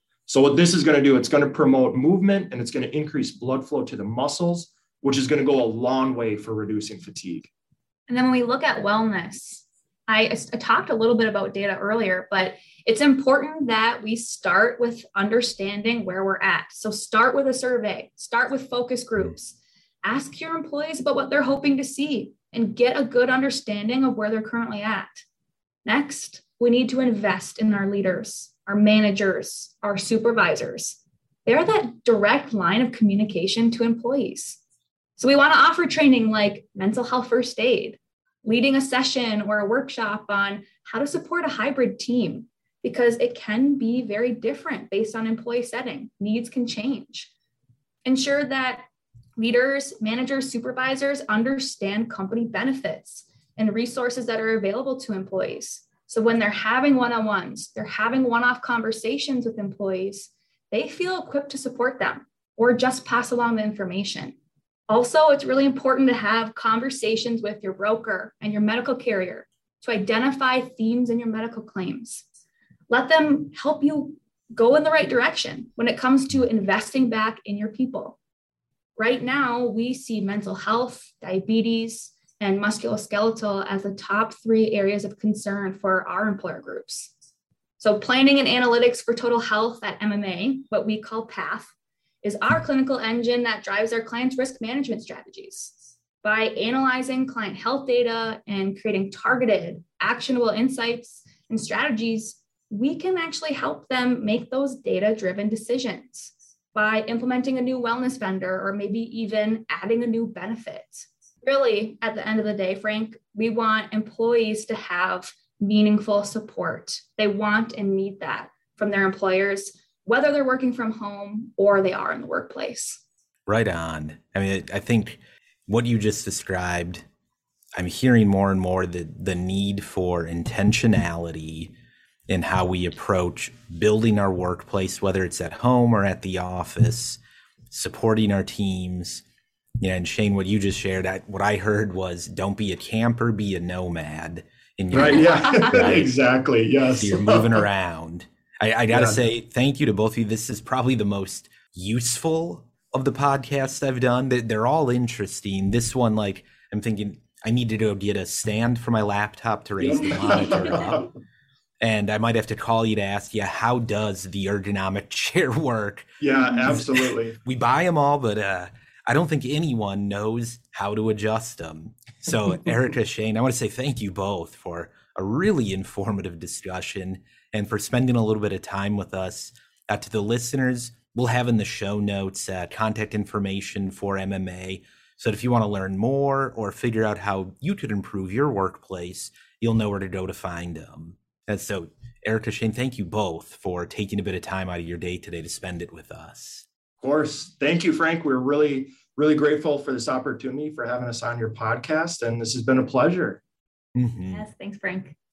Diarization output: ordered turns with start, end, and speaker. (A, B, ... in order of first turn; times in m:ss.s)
0:00.3-0:07.5 A
0:08.1-0:25.2 B
0:25.8-0:34.6 B
0:35.2-0:47.3 B
0:48.0-0:48.8 B
0:49.4-1:04.3 B
1:04.9-1:12.2 B
1:12.9-1:18.2 B
1:19.0-1:27.1 B
1:27.8-1:31.7 B
1:32.2-2:03.0 B
2:03.5-2:07.0 C
2:07.7-2:11.7 C
2:12.3-2:19.2 C
2:19.8-2:26.1 C
2:24.9-2:27.6 A
2:27.0-2:41.1 C
2:28.9-2:29.2 A
2:39.8-2:41.1 A
2:41.8-2:46.1 C
2:46.2-2:47.4 A
2:46.6-3:16.6 C
3:17.0-3:23.4 A
3:23.9-3:24.4 C
3:24.3-3:25.1 B